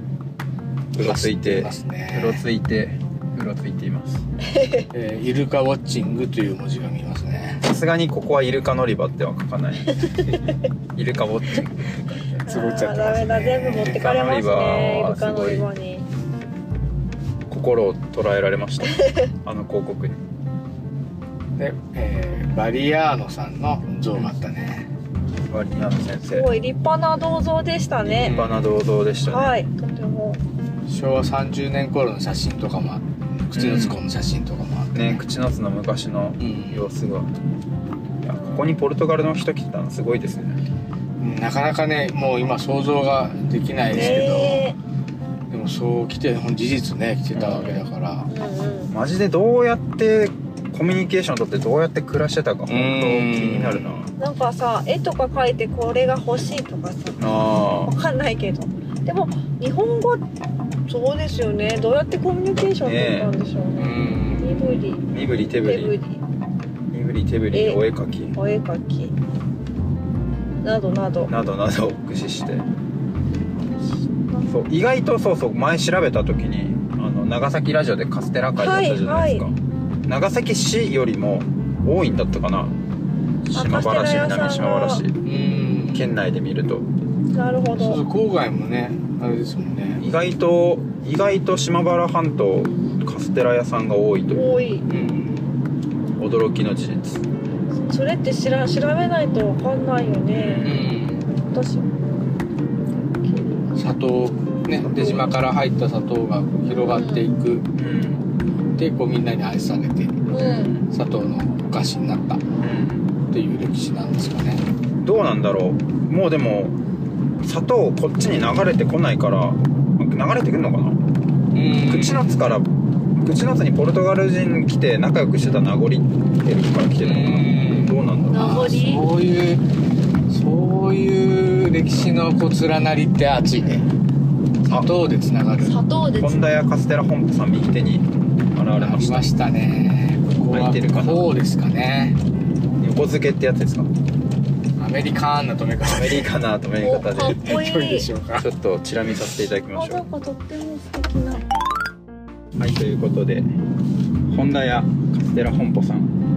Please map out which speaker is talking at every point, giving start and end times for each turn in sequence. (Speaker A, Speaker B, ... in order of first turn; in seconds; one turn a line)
Speaker A: 0.9-4.2
Speaker B: 1.0-2.4
Speaker C: 4.5-4.8
Speaker B: 4.9-7.6
Speaker A: 7.6-10.4
Speaker C: 9.9-10.4
Speaker A: 10.9-12.4
Speaker B: 12.4-14.0
Speaker C: 12.5-16.0
Speaker A: 13.7-15.7
Speaker A: 17.5-20.2
Speaker B: 21.6-24.9
Speaker A: 25.4-26.5
Speaker C: 26.3-28.4
Speaker A: 28.0-29.6
Speaker B: 28.2-28.7
Speaker C: 29.2-30.4
Speaker B: 30.9-35.2
Speaker A: 33.5-34.0
Speaker A: 34.9-37.3
Speaker B: 36.4-36.9
Speaker A: 38.2-40.6
Speaker B: 41.2-44.7
Speaker C: 43.9-44.8
Speaker A: 43.9-44.3
Speaker B: 45.5-48.3
Speaker A: 47.3-47.7
Speaker C: 48.3-48.9
Speaker A: 48.9-54.1
Speaker B: 52.7-54.0
Speaker C: 54.2-60.2
Speaker A: 57.2-57.9
Speaker C: 60.9-65.1
Speaker A: 62.8-63.3
Speaker B: 63.8-64.5
Speaker A: 65.1-65.9
Speaker C: 65.6-66.2
Speaker A: 66.9-68.3
Speaker C: 67.5-67.8
Speaker C: 68.3-69.2
Speaker C: 70.6-71.3
Speaker A: 71.3-72.7
Speaker A: 74.5-79.5
Speaker C: 78.6-79.4
Speaker A: 80.1-82.7
Speaker A: 83.5-85.2
Speaker C: 83.5-85.0
Speaker B: 85.2-86.1
Speaker A: 85.9-86.9
Speaker C: 87.3-88.0
Speaker B: 87.7-90.0
Speaker A: 90.0-94.4
Speaker C: 94.3-94.9
Speaker B: 94.9-95.4
Speaker A: 96.2-97.2
Speaker C: 97.8-100.8
Speaker A: 100.3-100.9
Speaker B: 100.6-101.2
Speaker C: 101.4-101.9
Speaker C: 103.2-103.7
Speaker B: 103.7-107.7
Speaker A: 104.9-105.2
Speaker C: 106.7-107.2
Speaker A: 107.8-108.2
Speaker B: 108.8-110.4
Speaker C: 110.3-110.8
Speaker A: 110.3-110.8
Speaker B: 110.9-112.5
Speaker A: 112.6-113.1
Speaker B: 113.3-114.6
Speaker A: 115.0-116.8
Speaker A: 117.4-121.0
Speaker B: 121.5-122.4
Speaker A: 121.8-128.5
Speaker B: 127.0-129.6
Speaker C: 128.3-129.1
Speaker B: 130.3-133.8
Speaker B: 134.7-135.8
Speaker C: 135.6-136.7
Speaker A: 136.2-139.3
Speaker B: 138.8-142.2
Speaker A: 140.5-141.3
Speaker A: 142.8-143.9
Speaker B: 144.8-146.3
Speaker A: 145.8-147.6
Speaker C: 146.8-148.1
Speaker B: 147.4-148.5
Speaker A: 148.4-150.0
Speaker C: 149.7-151.4
Speaker A: 152.6-153.5
Speaker A: 154.3-156.1